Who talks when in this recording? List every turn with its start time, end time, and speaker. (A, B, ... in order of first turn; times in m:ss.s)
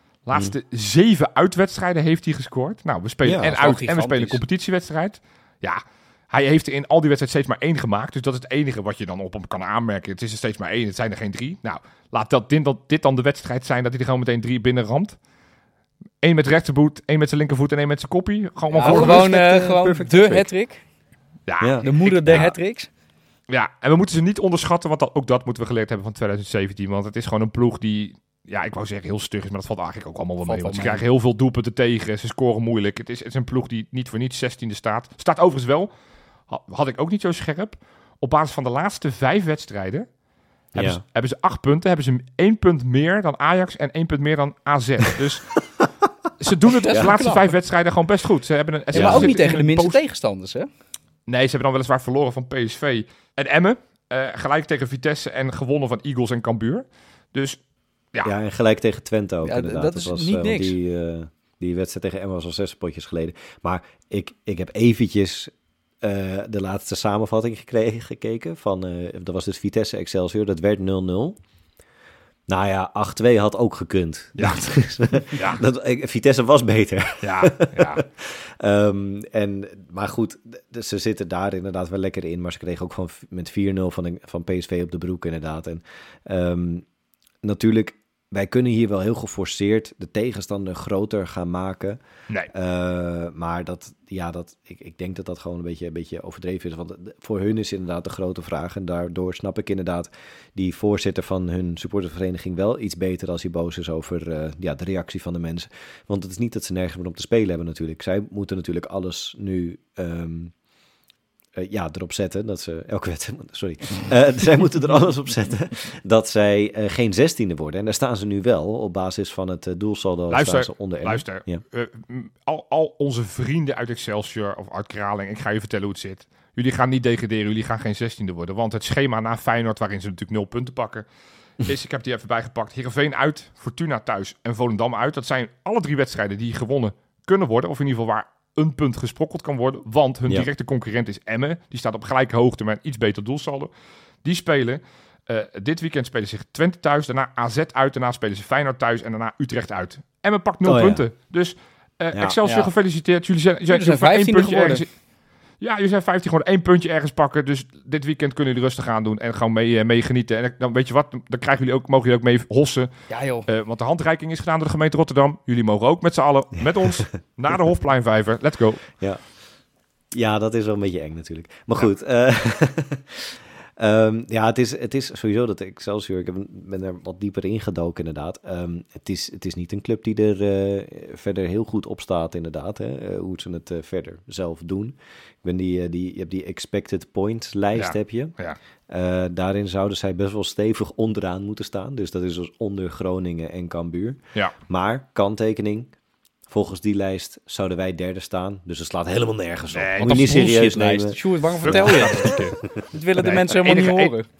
0:00.2-0:15.2 A
0:03.2-0:03.5 B
0:03.4-0:04.4 C
0:16.2-0:19.3 A
0:18.7-0:20.8 C
0:18.8-0:20.5 B
0:21.5-0:22.5 A
0:21.6-0:22.5 B
0:21.8-0:22.9 C
0:23.5-0:35.9 A
0:30.4-0:31.0 C
0:36.5-0:40.1 A
0:40.7-0:41.0 B
0:40.7-0:45.6 A
0:46.4-0:50.0 A
0:46.8-0:47.5 C
0:48.9-0:49.4 B
0:48.9-0:50.7 C
0:51.3-0:57.6 A
0:58.2-1:11.4 B
0:59.4-1:00.7 C
1:12.5-1:26.8 B
1:14.4-1:14.7 A
1:15.3-1:15.6 A
1:17.2-1:18.0 A
1:27.4-1:32.0 B
1:32.5-1:50.5 B
1:51.5-2:01.6 B
2:00.3-2:11.0 A
2:11.6-2:23.7 A
2:24.2-2:34.9 A
2:30.6-2:31.0 B
2:32.4-2:32.7 C
2:33.7-2:34.8 C
2:35.6-2:42.9 A
2:43.1-2:43.5 C
2:43.4-2:48.9 A
2:50.1-3:08.3 B
3:07.7-3:08.6 A
3:08.9-3:15.9 B
3:16.5-3:22.6 B
3:19.7-3:20.4 A
3:20.0-3:22.4 C
3:21.6-3:22.6 A
3:22.9-3:24.3 C
3:23.2-3:24.1 A